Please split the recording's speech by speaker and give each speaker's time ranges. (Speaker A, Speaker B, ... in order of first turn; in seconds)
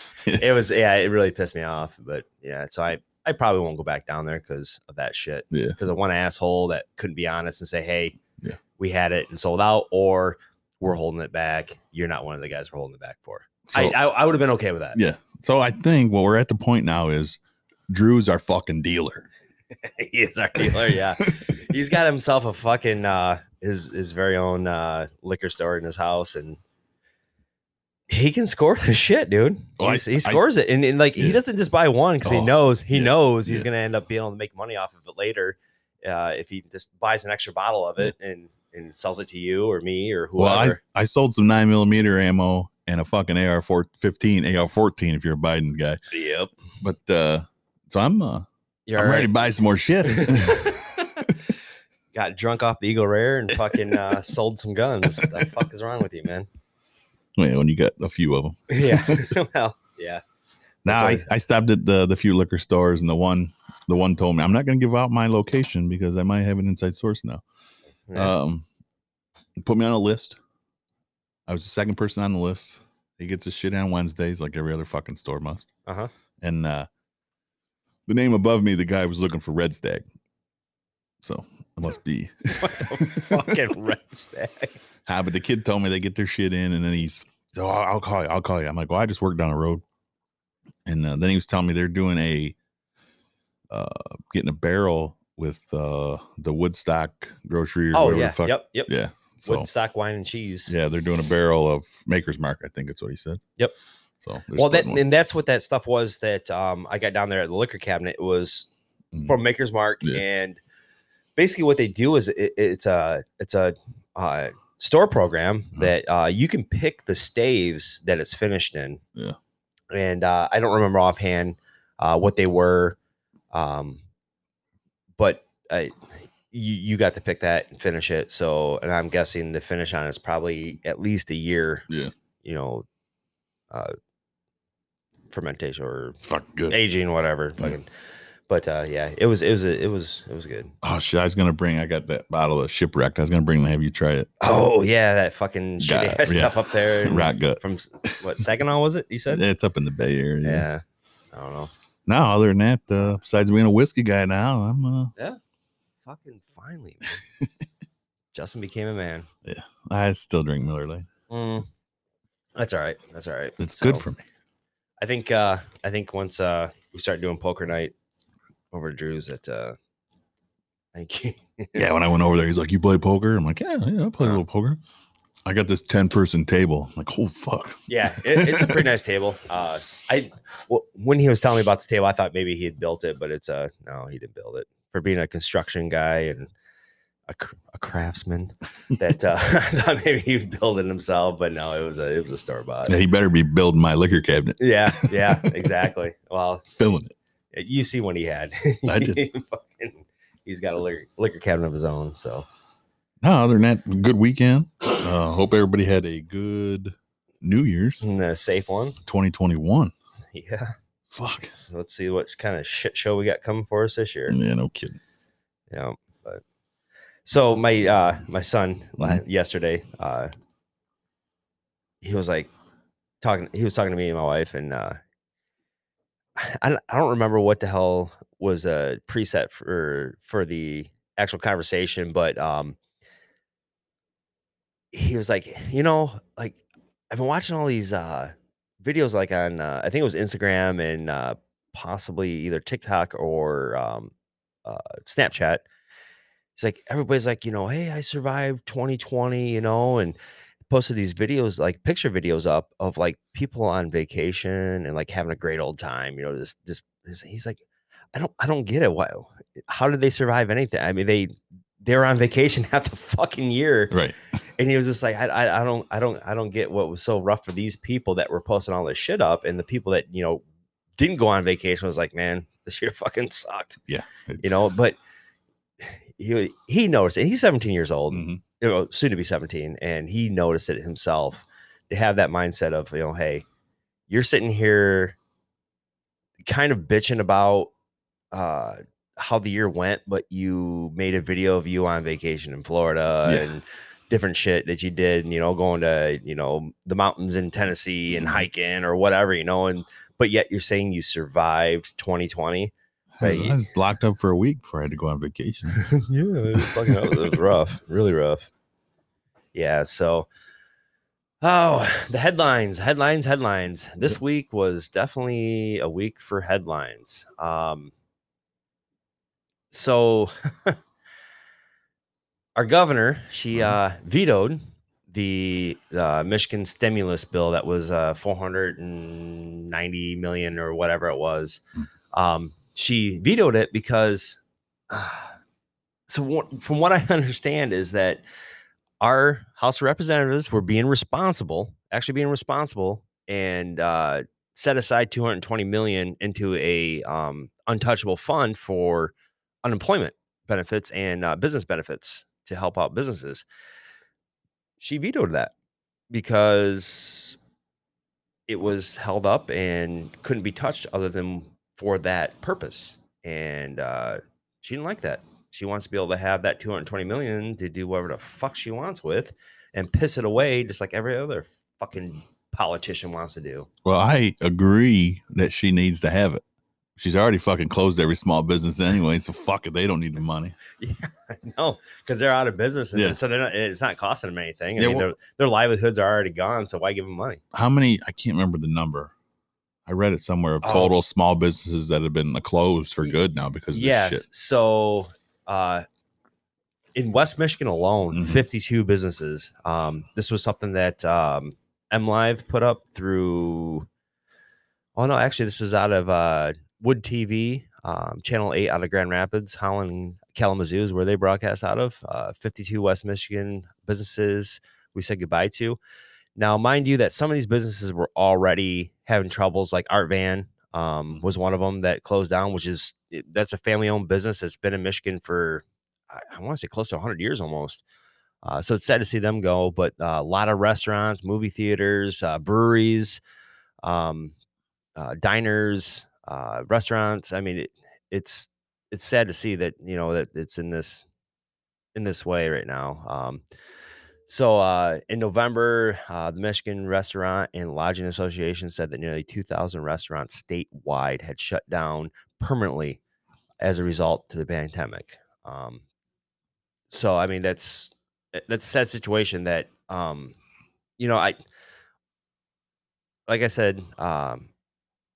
Speaker A: 0.3-8.2, 8.8-15.0, 19.8-26.6, 28.1-40.8, 46.1-46.5, 48.9-49.3, 50.0-51.3, 52.1-56.5, 58.7-60.2, 60.8-61.2, 68.1-68.3, 75.8-76.1, 82.6-84.8, 97.9-98.9, 99.4-100.7, 104.5-108.7, 109.2-110.6, 111.3-119.0, 119.9-123.0, 123.5-124.0, 125.2-125.9, 126.5-131.8, 132.4-132.8, 135.3-136.2, 136.7-137.9, 138.5-140.7, 144.4-149.4, 150.4-151.7, 156.0-157.2, 158.3-159.3, 161.3-161.7, 162.6-164.1, 165.0-167.9, 168.7-169.8, 170.9-171.8, 177.9-186.5, 187.3-192.9, 194.6-196.6, 197.5-202.5, 208.0-209.0, 210.3-210.7, 211.5-214.4, 215.7-216.4, 217.2-220.3, 222.0-222.5, 223.2-225.0, 226.4-232.8, 234.9-236.6, 237.1-244.1, 244.6-245.6, 246.6-250.2, 250.7-257.6, 258.1-264.0, 264.6-270.4, 271.0-273.8, 274.4-275.0, 275.8-283.4, 284.1-285.1, 286.4-287.7, 288.3-303.6, 305.7-308.5, 309.5-310.3, 311.4-317.9, 319.7-320.8, 322.6-331.6, 332.1-335.3, 336.1-338.2, 339.0-349.1, 349.6-353.4, 354.8-355.5, 356.1-357.4, 358.5-373.7, 380.8-387.4, 390.6-390.9, 393.7-395.8, 396.9-403.9, 404.9-415.8, 416.4-427.8, 428.4-433.2, 433.8-434.3, 434.9-441.0, 441.9-443.4, 444.3-453.0, 453.6-455.8, 456.9-460.4, 461.0-461.4, 463.3-464.5
Speaker B: 5.5-5.8, 13.7-14.0, 14.9-19.3, 20.6-21.3, 29.8-30.4, 32.2-33.7, 40.4-46.0, 46.8-50.8, 57.4-59.3, 60.9-67.4, 68.1-68.7, 69.6-70.4, 71.5-75.7, 76.4-76.9, 78.1-80.0, 81.2-83.5, 85.0-89.8, 90.8-92.5, 93.7-99.7, 100.7-103.4, 104.2-105.0, 136.2-136.8, 140.8-144.3, 145.8-148.1, 149.3-150.7, 152.1-155.1, 159.4-161.1, 163.6-164.2, 171.7-174.8, 175.4-178.9, 192.9-195.7, 196.8-197.1, 198.8-199.2, 203.2-208.0, 209.0-209.9, 211.1-211.6, 214.3-215.0, 263.9-264.1, 273.9-274.5, 278.1-278.4, 298.1-298.4, 303.1-305.9, 306.6-307.3, 373.8-376.4, 377.0-380.6, 384.8-385.1, 387.5-389.1, 389.9-394.2, 398.1-398.4